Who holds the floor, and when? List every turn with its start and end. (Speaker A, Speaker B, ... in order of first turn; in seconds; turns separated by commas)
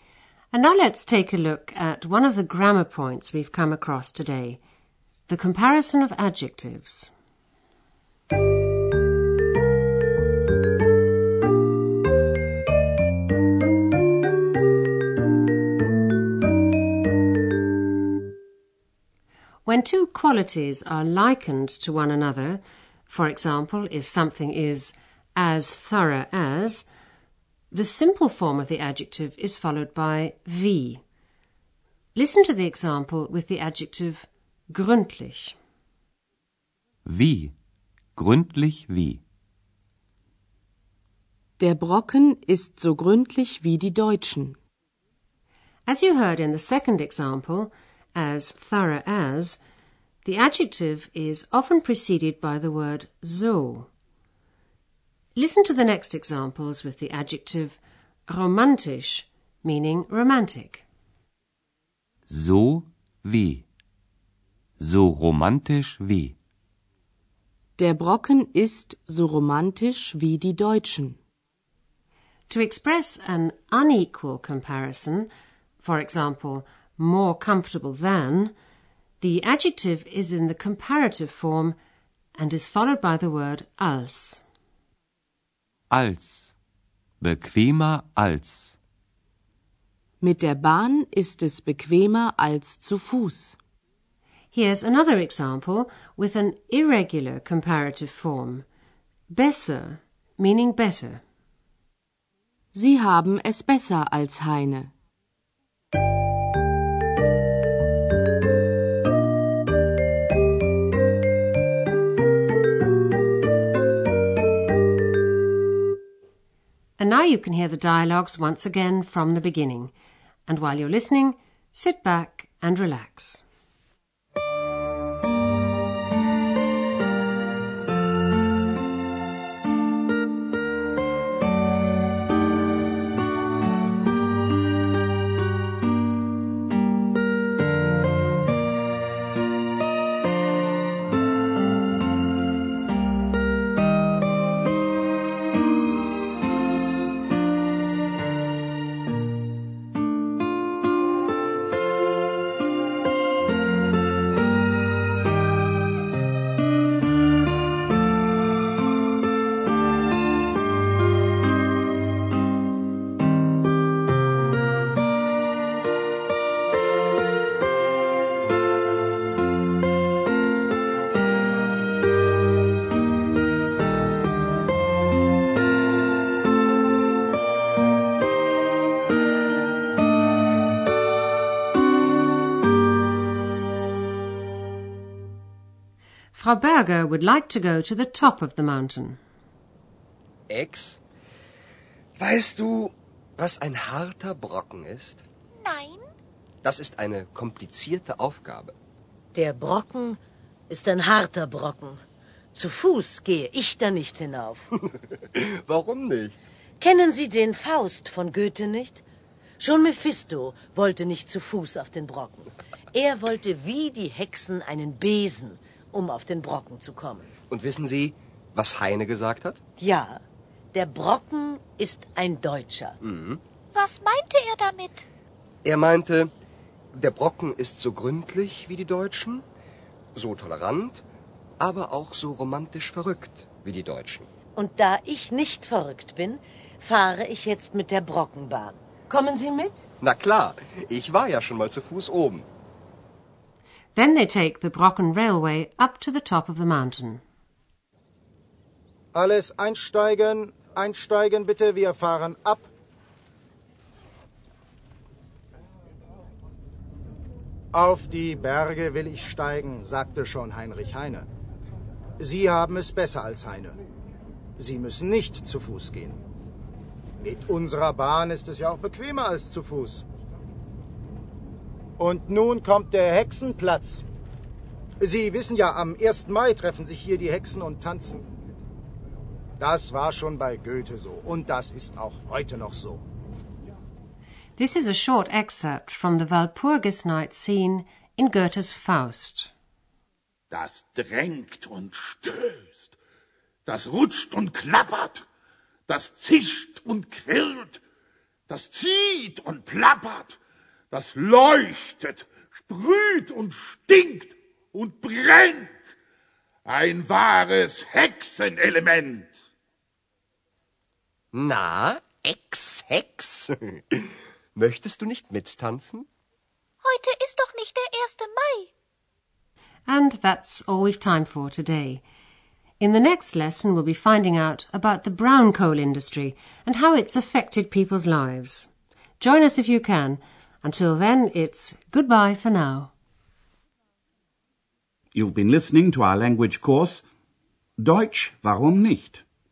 Speaker A: 0.5-4.6, Speaker A: 5.3-7.1, Speaker A: 19.6-26.9, Speaker A: 27.7-31.0, Speaker A: 32.1-35.5, Speaker B: 37.0-37.5, Speaker B: 38.1-39.2, Speaker C: 41.6-44.6, Speaker A: 45.9-49.6, Speaker A: 50.2-53.9, Speaker A: 55.4-60.8, Speaker B: 62.3-63.6, Speaker B: 64.8-66.3, Speaker C: 67.8-71.2, Speaker A: 72.5-75.3, Speaker A: 75.8-78.5, Speaker A: 79.2-81.8, Speaker A: 82.3-84.4, Speaker B: 85.9-86.5, Speaker B: 87.2-88.7, Speaker C: 90.2-93.6, Speaker A: 94.5-98.6, Speaker A: 99.3-101.2, Speaker C: 102.7-104.9, Speaker A: 117.0-119.9, Speaker A: 120.5-123.4, Speaker A: 186.3-189.2, Speaker D: 190.5-191.0, Speaker D: 192.2-195.2, Speaker E: 195.6-196.0, Speaker D: 196.6-198.8, Speaker F: 199.3-200.2, Speaker F: 200.7-202.0, Speaker F: 202.5-204.7, Speaker D: 205.3-206.4, Speaker F: 206.8-209.0, Speaker F: 209.6-217.3, Speaker D: 217.5-219.6, Speaker F: 219.8-220.2, Speaker F: 220.7-223.0, Speaker D: 223.0-223.4, Speaker E: 223.8-225.1, Speaker D: 225.6-226.3, Speaker D: 226.9-229.4, Speaker D: 230.1-231.0, Speaker D: 231.6-234.3, Speaker F: 234.6-239.8, Speaker D: 240.0-242.4, Speaker A: 243.9-247.2, Speaker G: 249.1-252.7, Speaker G: 257.7-261.2, Speaker G: 262.2-263.8, Speaker G: 264.6-266.2, Speaker G: 267.2-270.0, Speaker G: 272.0-274.0, Speaker G: 275.0-278.2, Speaker G: 279.6-283.0, Speaker A: 284.6-289.5, Speaker H: 290.5-292.9, Speaker H: 293.6-295.2, Speaker H: 295.9-297.8, Speaker H: 298.5-300.4, Speaker H: 300.9-305.9, Speaker H: 306.6-309.3, Speaker D: 311.3-316.1, Speaker E: 316.8-318.6, Speaker A: 319.9-322.0, Speaker A: 322.8-332.9, Speaker I: 335.1-337.0, Speaker I: 337.8-339.2